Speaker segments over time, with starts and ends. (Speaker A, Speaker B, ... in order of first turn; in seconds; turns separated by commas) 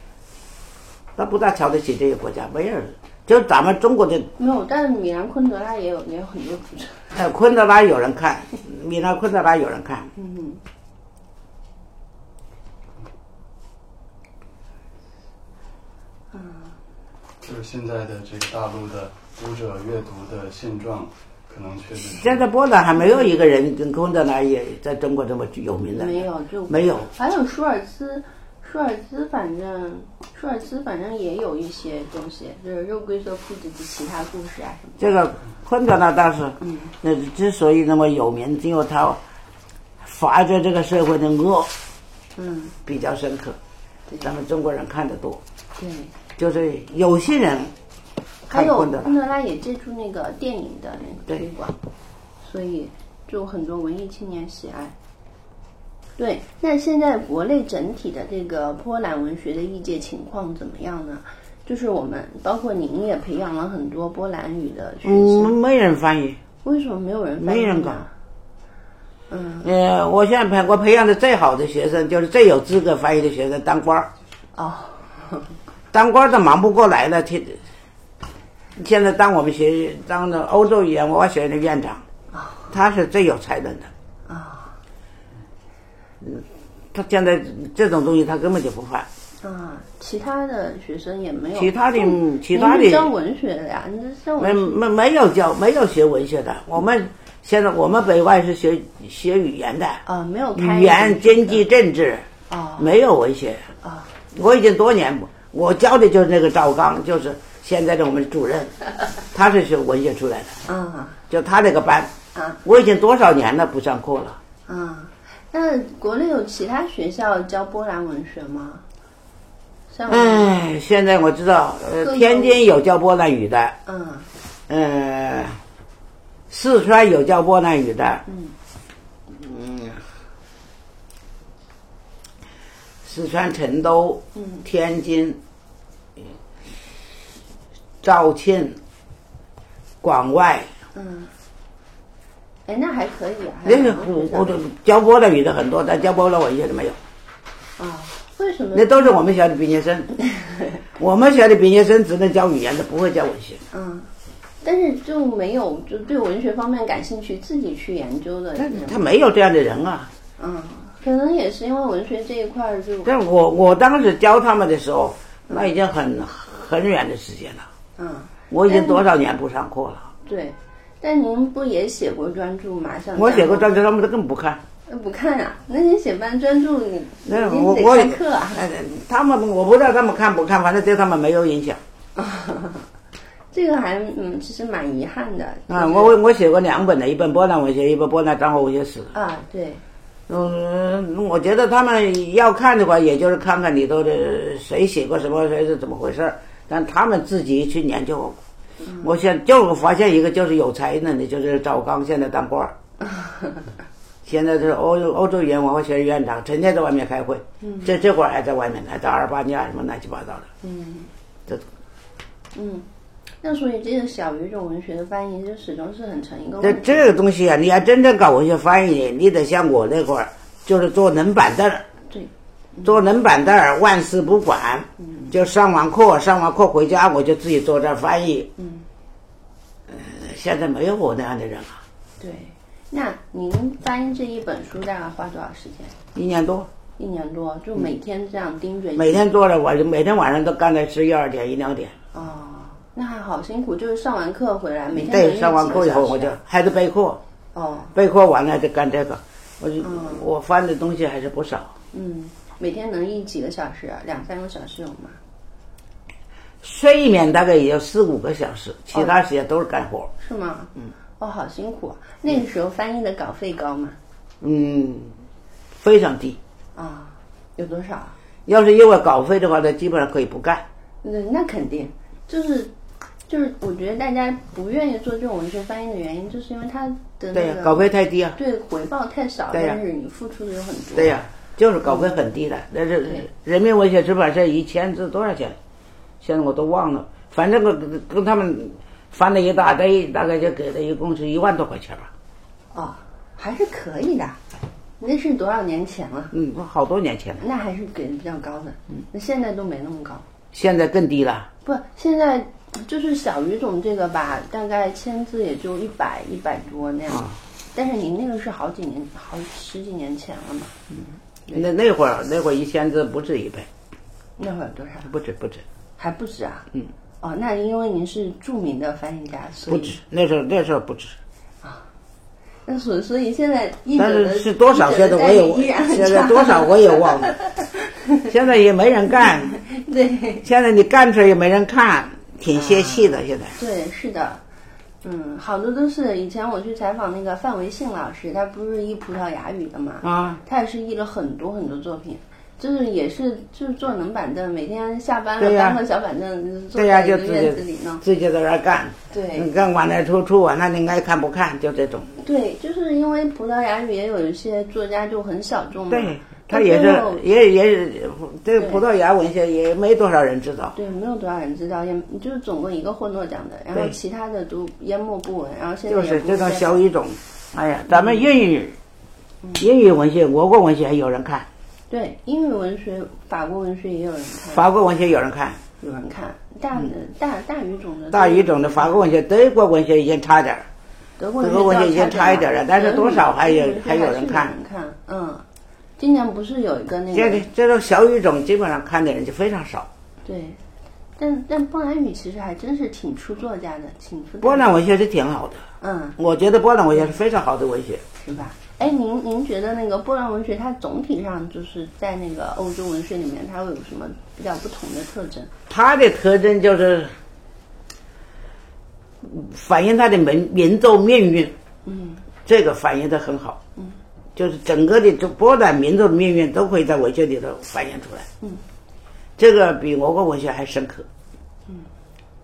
Speaker A: 1.2-4.3, Speaker B: 4.4-7.2, Speaker A: 7.1-10.1, Speaker B: 10.2-10.6, Speaker B: 16.3-16.7, Speaker C: 17.4-22.5, Speaker A: 22.0-27.1, Speaker B: 23.0-23.3, Speaker B: 25.9-35.1, Speaker A: 35.0-39.2, Speaker B: 36.6-36.9, Speaker A: 40.0-41.7, Speaker B: 42.4-42.8, Speaker A: 42.9-43.6, Speaker A: 44.2-45.4, Speaker B: 45.8-46.1, Speaker A: 46.4-47.7, Speaker B: 48.5-51.8, Speaker A: 48.5-49.1, Speaker B: 52.4-55.0, Speaker B: 56.2-65.6, Speaker A: 65.0-66.4, Speaker B: 66.6-68.1, Speaker A: 67.4-68.0, Speaker B: 69.3-69.7, Speaker A: 69.6-74.1, Speaker B: 74.5-75.5, Speaker A: 75.9-77.6, Speaker A: 78.8-82.0, Speaker B: 82.3-82.7, Speaker A: 82.7-83.9, Speaker B: 84.3-84.8, Speaker A: 86.2-89.1, Speaker B: 89.4-94.8, Speaker A: 91.5-93.1, Speaker A: 94.4-100.0, Speaker B: 100.1-101.6, Speaker A: 100.5-103.7, Speaker B: 102.5-102.9, Speaker B: 103.8-104.1, Speaker A: 104.3-108.8, Speaker A: 109.3-110.6, Speaker B: 110.7-111.2, Speaker A: 111.3-114.4, Speaker B: 114.7-118.8, Speaker B: 119.9-120.5, Speaker A: 120.1-123.8, Speaker B: 122.0-122.6, Speaker B: 123.9-124.3, Speaker A: 124.7-125.6, Speaker A: 126.5-128.2, Speaker B: 128.3-128.5, Speaker A: 129.3-130.0, Speaker A: 133.0-135.4, Speaker B: 134.3-134.6, Speaker A: 138.0-138.8, Speaker A: 140.0-140.7, Speaker B: 140.9-141.3, Speaker B: 142.7-144.6, Speaker A: 143.7-147.0, Speaker B: 147.8-149.2, Speaker A: 148.7-150.1, Speaker B: 150.2-150.8, Speaker A: 151.0-153.6, Speaker B: 153.7-154.1, Speaker B: 154.6-159.0, Speaker A: 158.6-160.1, Speaker B: 160.4-163.1, Speaker A: 163.1-167.7, Speaker B: 168.0-169.1, Speaker A: 168.5-170.1, Speaker B: 170.3-173.7, Speaker A: 173.2-174.6, Speaker B: 174.9-178.6, Speaker A: 177.3-181.8, Speaker B: 182.2-182.9, Speaker B: 183.5-186.1, Speaker A: 185.7-189.1, Speaker B: 189.1-189.8, Speaker A: 190.3-198.4, Speaker B: 198.8-199.1, Speaker A: 199.0-202.8, Speaker B: 203.0-203.7, Speaker A: 204.2-210.5, Speaker B: 207.6-207.9, Speaker B: 210.6-211.1, Speaker B: 212.5-212.9, Speaker B: 213.4-217.2, Speaker A: 216.6-221.9, Speaker B: 222.1-223.0, Speaker A: 222.8-228.5, Speaker B: 225.0-225.3, Speaker B: 228.6-228.9, Speaker A: 229.9-231.8, Speaker B: 232.2-236.0, Speaker A: 236.2-236.7, Speaker B: 237.0-239.2, Speaker A: 239.0-242.0, Speaker B: 242.1-246.4, Speaker A: 244.9-247.2, Speaker B: 247.6-247.9, Speaker A: 247.9-251.8, Speaker B: 249.8-250.2, Speaker B: 251.9-255.2, Speaker A: 256.6-260.1, Speaker B: 260.2-264.0, Speaker A: 264.4-265.1, Speaker A: 265.8-266.4, Speaker B: 266.8-268.1, Speaker A: 268.5-270.7, Speaker B: 271.0-272.7, Speaker B: 273.3-281.2, Speaker A: 277.3-278.4, Speaker A: 279.5-279.8, Speaker A: 281.0-285.6, Speaker B: 281.9-282.2, Speaker A: 286.2-292.1, Speaker B: 292.7-294.4, Speaker B: 295.0-296.3, Speaker A: 296.3-297.4, Speaker B: 297.4-300.2, Speaker A: 300.5-301.5, Speaker B: 301.6-310.8, Speaker A: 307.1-307.4, Speaker A: 311.5-313.7, Speaker B: 314.4-315.1, Speaker A: 315.1-315.6, Speaker B: 316.0-316.7, Speaker B: 317.2-320.0, Speaker A: 319.7-321.2, Speaker B: 321.6-321.9, Speaker B: 322.7-328.3, Speaker A: 324.0-327.3, Speaker A: 328.3-329.6, Speaker B: 329.1-330.4, Speaker A: 330.4-333.6, Speaker B: 332.5-334.4, Speaker B: 335.0-348.0, Speaker A: 340.0-340.4, Speaker A: 345.4-345.8, Speaker A: 346.8-352.1, Speaker B: 349.1-349.5, Speaker B: 352.2-357.3, Speaker A: 355.9-360.8, Speaker B: 358.6-358.8, Speaker B: 360.8-366.8, Speaker A: 365.9-368.8, Speaker B: 369.4-369.7, Speaker A: 369.6-371.5, Speaker B: 371.9-374.7, Speaker A: 374.5-375.6, Speaker B: 375.8-378.9, Speaker A: 378.1-380.7, Speaker B: 381.2-385.4, Speaker A: 381.4-384.6, Speaker B: 386.0-387.5, Speaker A: 387.1-389.9, Speaker B: 390.2-390.6, Speaker B: 391.2-394.8, Speaker A: 394.4-395.6, Speaker B: 395.8-396.2, Speaker A: 396.2-398.0, Speaker B: 398.2-405.5, Speaker A: 405.7-407.1, Speaker A: 409.2-411.6, Speaker B: 411.9-412.2, Speaker A: 412.4-413.6, Speaker A: 414.4-418.3, Speaker A: 419.4-421.1